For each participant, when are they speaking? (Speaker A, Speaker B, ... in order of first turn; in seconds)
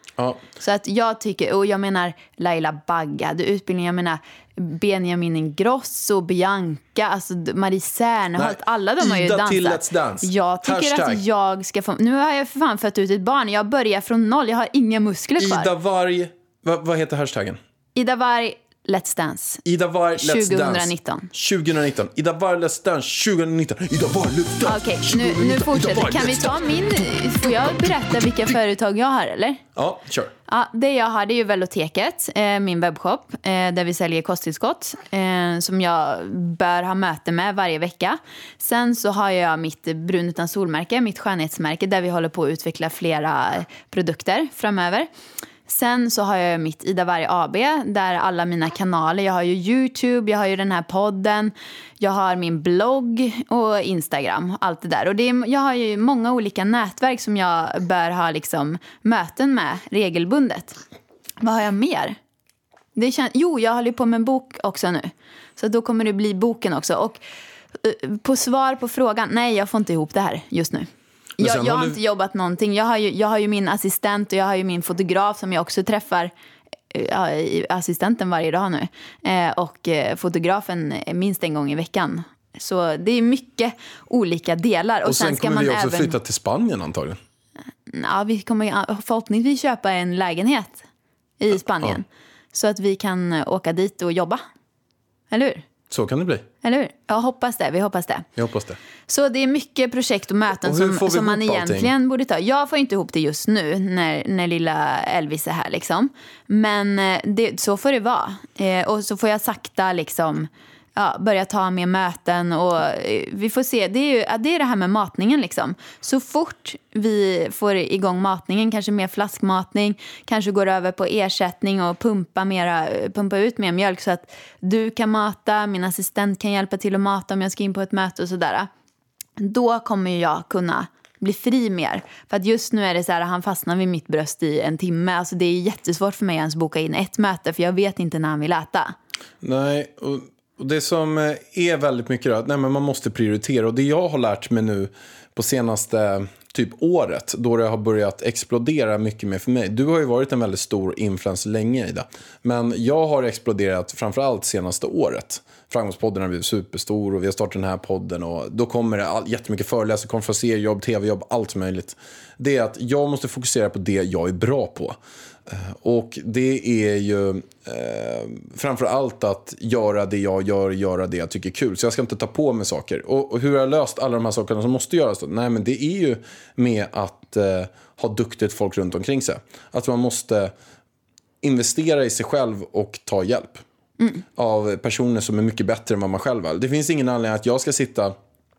Speaker A: 0.2-0.4, 8.4-11.2, 15.4-17.6, 19.6-26.7, 27.4-27.9, 29.7-30.3, 71.4-72.0, 85.0-87.2, 95.9-96.5, 98.3-98.8, 100.6-101.9, 139.4-180.5, 181.4-183.6, 184.3-188.1
Speaker B: 0.6-15.7, 17.9-19.6, 20.2-21.3, 24.6-29.6, 30.5-45.1, 45.7-60.8, 61.4-62.2, 63.0-67.2, 67.8-76.3, 76.9-86.2, 87.9-90.8, 91.4-94.4, 95.3-95.7, 96.6-98.3, 99.1-128.7, 129.4-138.9